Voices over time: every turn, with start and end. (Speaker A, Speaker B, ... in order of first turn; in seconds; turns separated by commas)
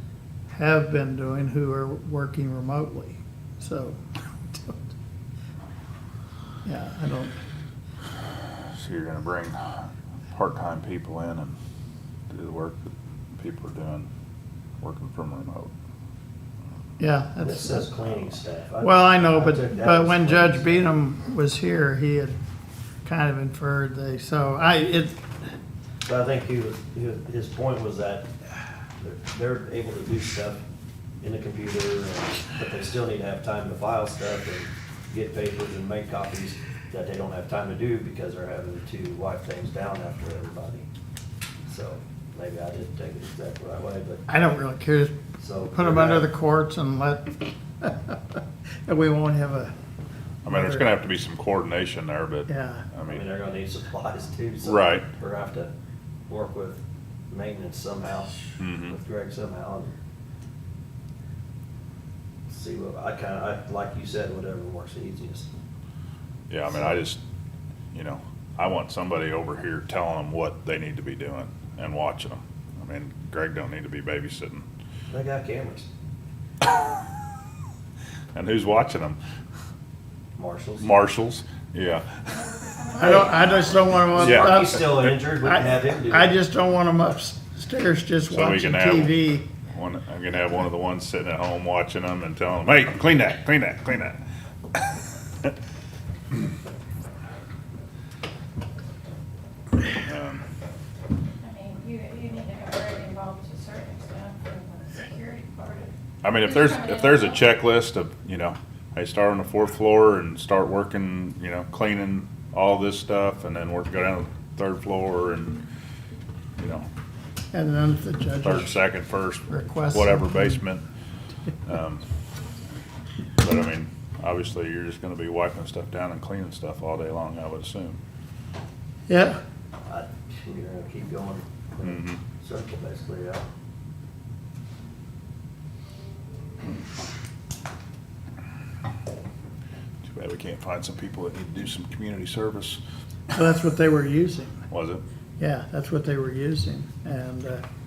Speaker A: 0.5-4.9, Speaker A: 6.7-7.4, Speaker B: 8.8-11.6, Speaker B: 12.3-14.1, Speaker B: 14.8-15.7, Speaker A: 17.0-17.9, Speaker C: 17.4-20.9, Speaker A: 18.8-22.4, Speaker A: 23.1-25.2, Speaker C: 26.1-28.3, Speaker C: 29.0-30.6, Speaker C: 31.2-40.9, Speaker C: 41.7-44.2, Speaker A: 44.3-45.2, Speaker C: 45.4-46.3, Speaker A: 45.7-49.7, Speaker B: 50.5-53.3, Speaker A: 50.5-50.9, Speaker A: 52.5-52.9, Speaker C: 53.1-55.7, Speaker B: 54.6-55.1, Speaker C: 56.3-60.0, Speaker B: 58.6-59.0, Speaker C: 62.5-65.5, Speaker B: 66.5-67.2, Speaker C: 66.7-67.0, Speaker B: 67.9-74.7, Speaker C: 75.1-75.9, Speaker B: 78.3-79.2, Speaker C: 80.4-81.0, Speaker B: 80.8-82.2, Speaker D: 82.3-83.9, Speaker A: 83.0-89.5, Speaker C: 83.0-83.3, Speaker C: 84.0-86.4, Speaker B: 84.2-85.1, Speaker B: 88.3-89.2, Speaker B: 89.7-94.2, Speaker B: 99.9-100.4, Speaker D: 101.4-107.5, Speaker B: 106.2-115.6, Speaker B: 116.6-116.9, Speaker A: 117.5-118.8, Speaker B: 118.4-120.8, Speaker A: 119.5-120.6, Speaker B: 121.7-122.0, Speaker B: 123.4-128.0, Speaker A: 129.1-129.4, Speaker C: 129.9-133.5, Speaker B: 131.8-132.2, Speaker B: 140.0-142.8, Speaker A: 143.3-144.5, Speaker B: 144.7-145.0, Speaker A: 145.4-147.6